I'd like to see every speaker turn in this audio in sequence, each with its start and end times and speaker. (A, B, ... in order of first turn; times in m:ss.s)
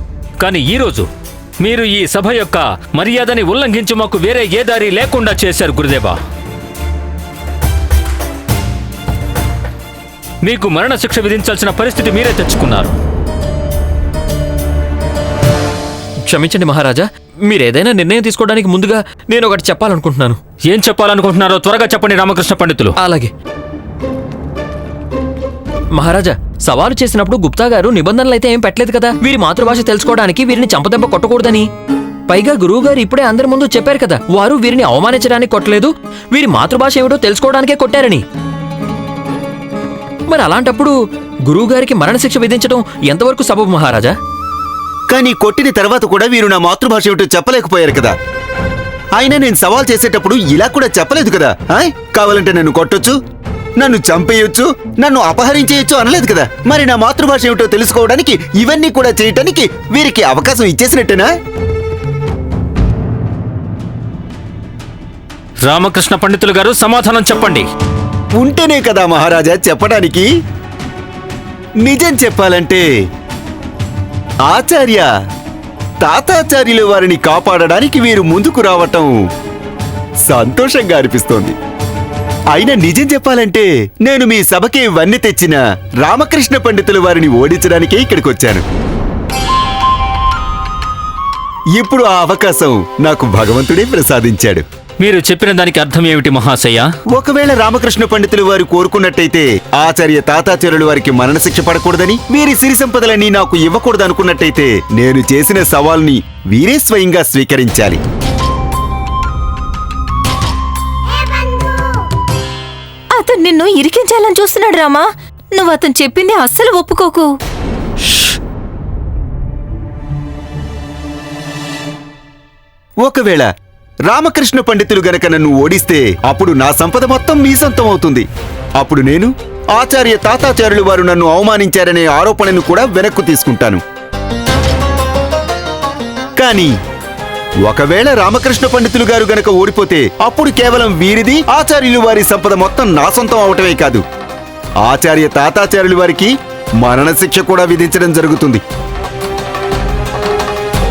0:00.4-0:01.1 A
0:01.6-0:06.2 A
0:10.4-0:13.0 A
0:16.3-0:20.4 B
0:20.7-0:23.0 A
0:23.0-0:23.3 B
0:25.9-0:31.7 B
0:32.3-0:38.2 B
0:40.3-0:41.0 B
0:41.5-0:44.2 B
0:45.1-0:48.2 C
0:49.2-0:53.1 C
0:53.8-1:01.3 C
1:05.6-1:07.7 A
1:08.4-1:10.3 C
1:11.8-1:12.8 C
1:14.5-1:15.1 C
1:16.0-1:19.1 C
1:20.3-1:21.5 C
1:22.5-1:28.6 C
1:31.8-1:34.6 C
1:35.0-1:36.9 A
1:37.1-1:48.0 C
1:53.2-1:57.3 D
2:03.0-2:03.5 C
2:04.1-2:08.3 C
2:08.8-2:13.8 C
2:16.4-2:16.7 C
2:17.6-2:24.0 C
2:24.8-2:28.6 C